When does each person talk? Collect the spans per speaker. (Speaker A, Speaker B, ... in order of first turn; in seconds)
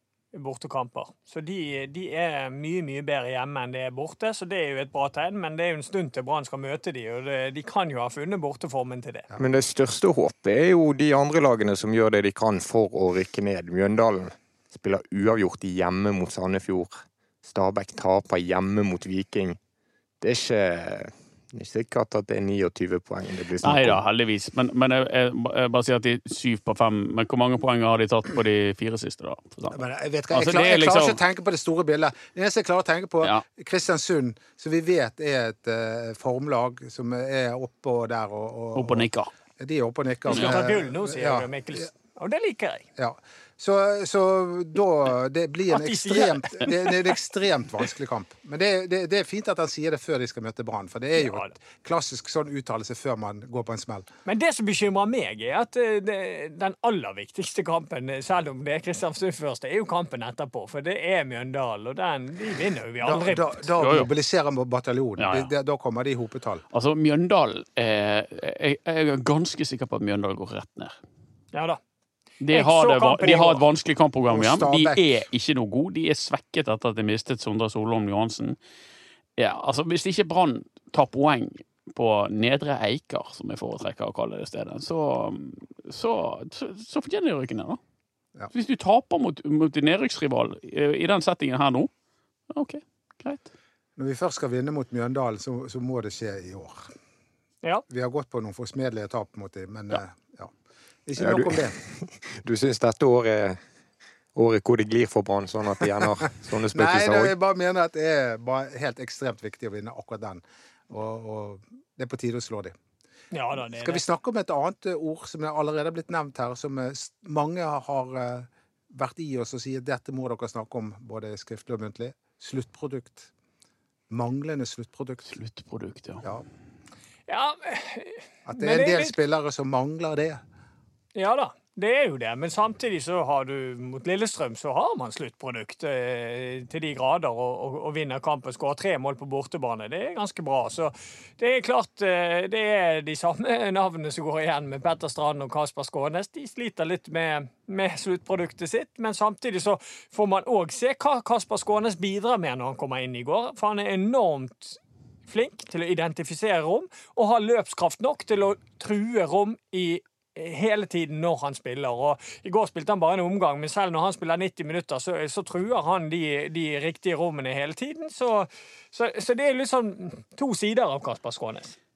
Speaker A: 0.3-9.3, 40.3-42.9, 45.7-47.1, 51.2-51.5, 54.3-63.6, 71.5-71.8, 72.5-73.6, 113.3-114.0, 127.3-129.2, 131.2-171.8
Speaker B: 9.4-19.6, 20.2-24.0, 101.2-103.6, 104.3-107.3
Speaker C: 23.6-29.8, 30.3-31.2, 38.8-39.3, 40.3-40.6, 63.8-64.1, 65.2-65.5, 66.7-70.9, 72.4-78.6, 79.4-87.8, 88.5-91.9, 92.5-93.5, 125.3-126.2
Speaker D: 29.7-39.1, 39.6-41.5, 43.0-54.1, 63.0-66.6, 74.3-75.0, 94.0-96.8, 97.9-100.5, 101.1-101.8, 106.7-112.8, 113.7-123.3, 124.1-125.4, 128.5-130.4